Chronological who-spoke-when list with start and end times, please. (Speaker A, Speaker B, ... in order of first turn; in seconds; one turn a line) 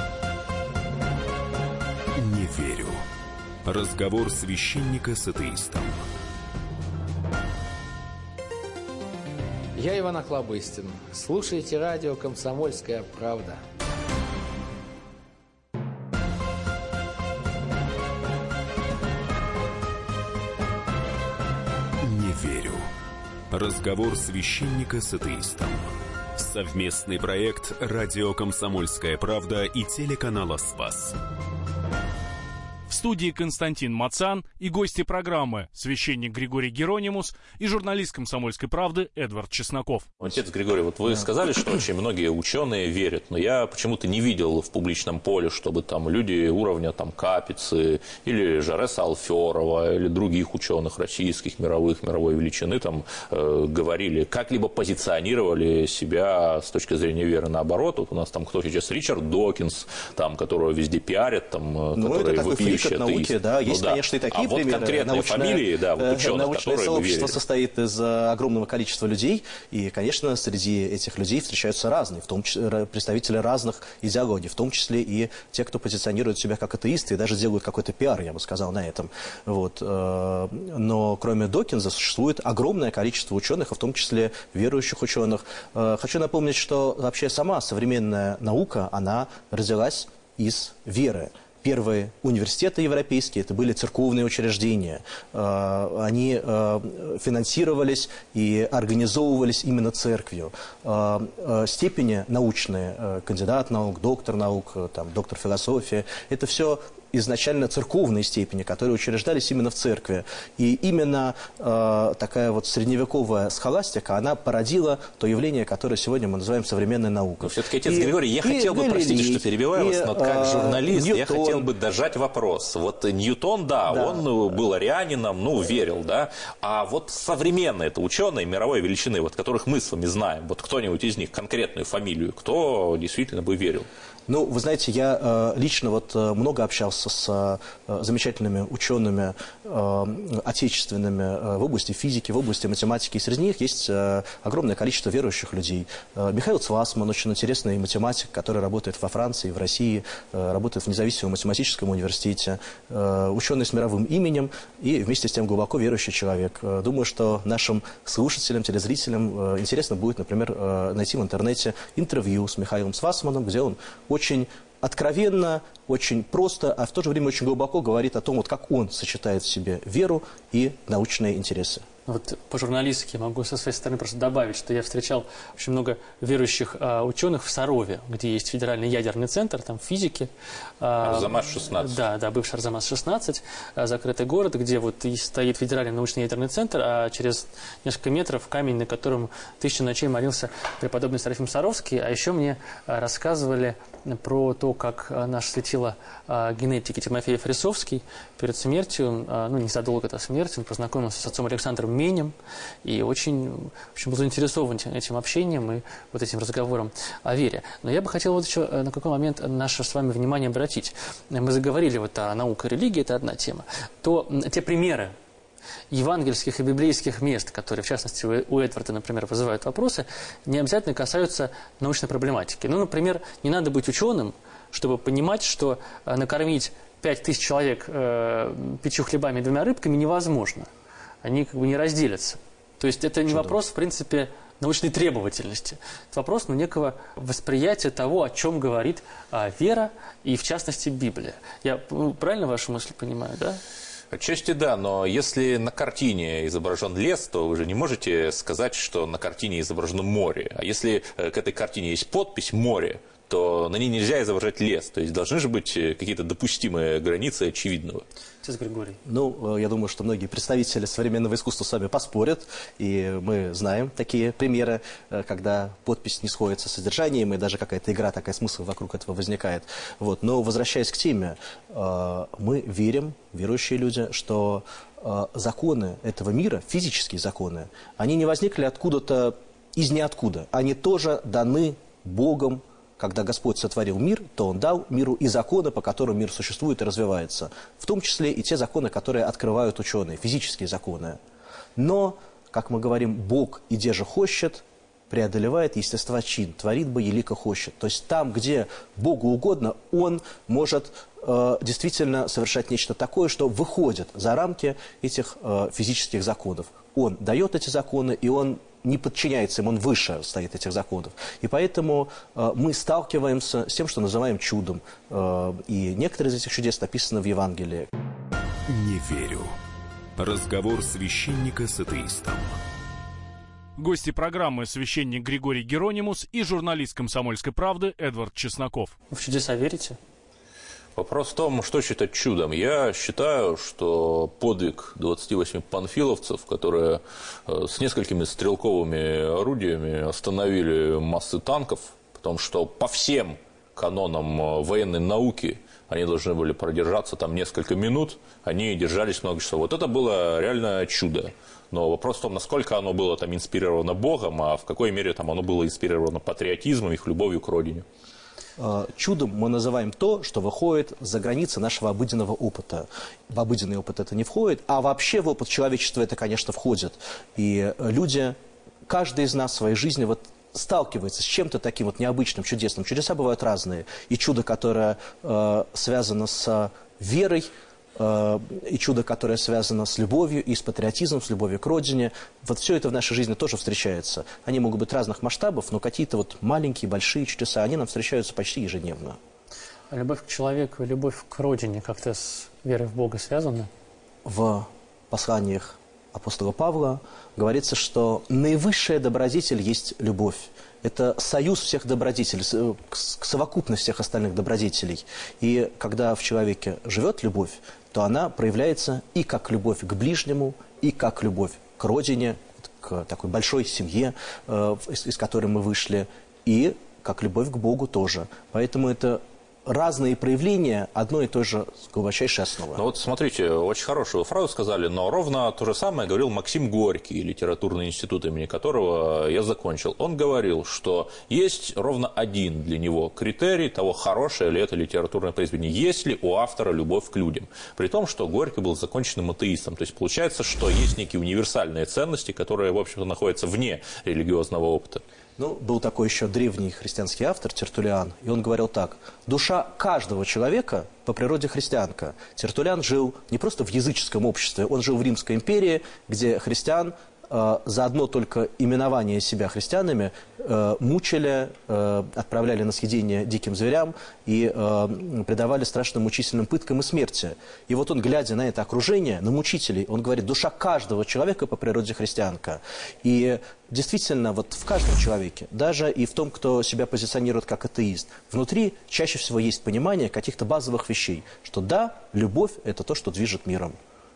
Speaker A: 2.1-3.0
Speaker A: 3.6-6.0
Speaker B: 9.8-13.6
Speaker A: 22.0-22.9
Speaker A: 23.5-31.1
Speaker C: 32.9-40.1
Speaker D: 40.2-67.4
Speaker E: 61.9-121.7
Speaker D: 117.4-133.9
Speaker E: 123.8-124.3
Speaker E: 134.3-171.8
Speaker F: 172.1-180.3
Speaker F: 180.8-215.1
Speaker D: 181.0-182.0
Speaker F: 215.9-230.7
Speaker F: 231.2-243.6
Speaker E: 233.3-233.6
Speaker D: 244.1-258.0
Speaker F: 258.4-259.0
Speaker E: 259.0-291.2
Speaker E: 291.8-317.9
Speaker A: 318.7-319.6
Speaker A: 320.2-322.6
Speaker C: 323.8-328.9
Speaker F: 329.1-330.0
Speaker D: 330.9-357.8
Speaker E: 358.6-368.4
Speaker E: 368.9-389.2
Speaker F: 389.9-393.7
Speaker E: 394.2-422.8
Speaker D: 422.8-445.0
Speaker E: 445.4-483.8